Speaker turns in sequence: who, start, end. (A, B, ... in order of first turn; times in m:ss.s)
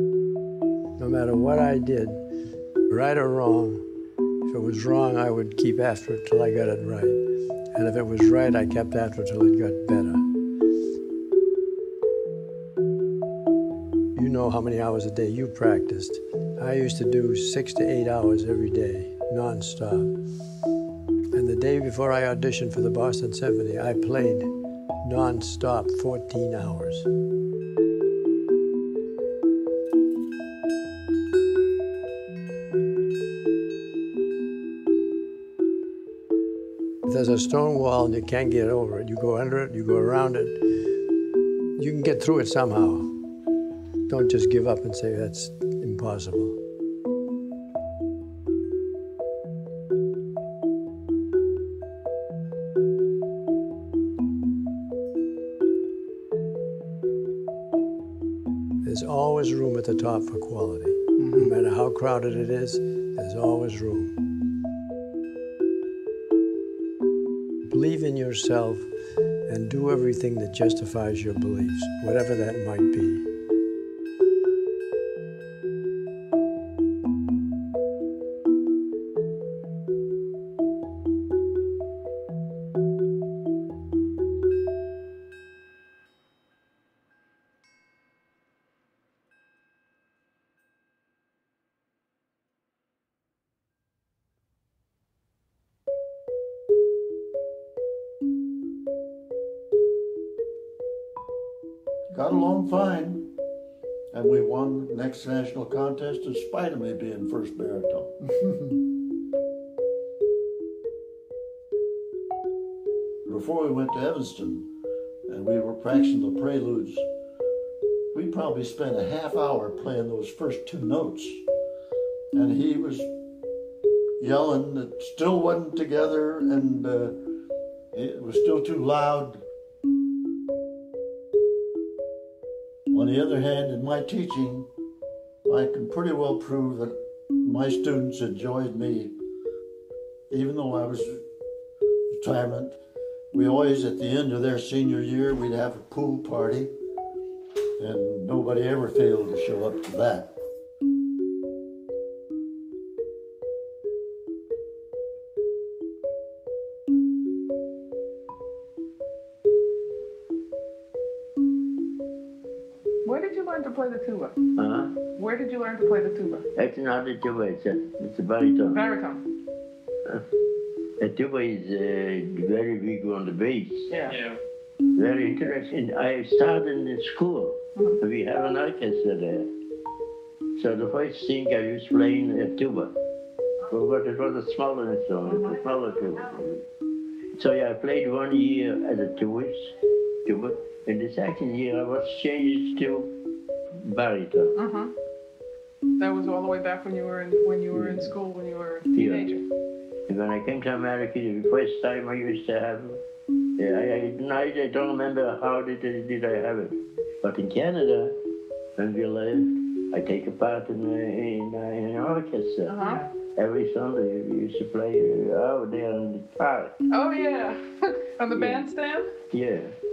0:01.0-0:02.2 A
0:02.9-0:03.8 A
0:04.4-0:07.2 A
0:07.7-0:10.2 A
0:14.1-0:20.1 A
0:21.3-0:24.5 A
0:25.0-0:27.1 A
0:37.0-0:40.6 A
0:41.8-0:43.1 A
0:44.1-0:46.6 A
0:58.8-1:04.2 A
1:07.7-1:08.9 A
1:09.5-1:13.3 A
1:42.1-1:43.3 B
1:44.1-1:48.2 B
1:53.2-1:54.7 B
1:55.3-1:57.0 B
1:58.1-2:01.4 B
2:02.3-2:03.1 B
2:04.2-2:07.2 B
2:07.9-2:09.4 B
2:12.9-2:14.7 B
2:15.4-2:19.2 B
2:20.3-2:21.2 B
2:22.1-2:22.8 B
2:23.3-2:26.7 B
2:27.8-2:30.3 B
2:43.0-2:44.4 C
2:44.6-2:44.9 D
2:45.2-2:46.4 C
2:46.5-2:48.8 D
2:48.8-2:49.2 C
2:51.0-2:53.9 D
2:54.9-2:59.5 D
3:00.6-3:02.9 D
3:03.7-3:06.6 D
3:07.3-3:09.7 D
3:10.2-3:13.1 D
3:13.7-3:14.5 D
3:14.6-3:14.9 C
3:16.0-3:19.4 C
3:17.7-3:18.1 D
3:18.9-3:19.2 D
3:20.1-3:23.0 D
3:23.6-3:28.1 D
3:28.8-3:32.8 D
3:32.7-3:33.1 C
3:33.3-3:36.8 D
3:36.9-3:39.1 C
3:38.3-3:38.6 D
3:39.3-3:39.7 D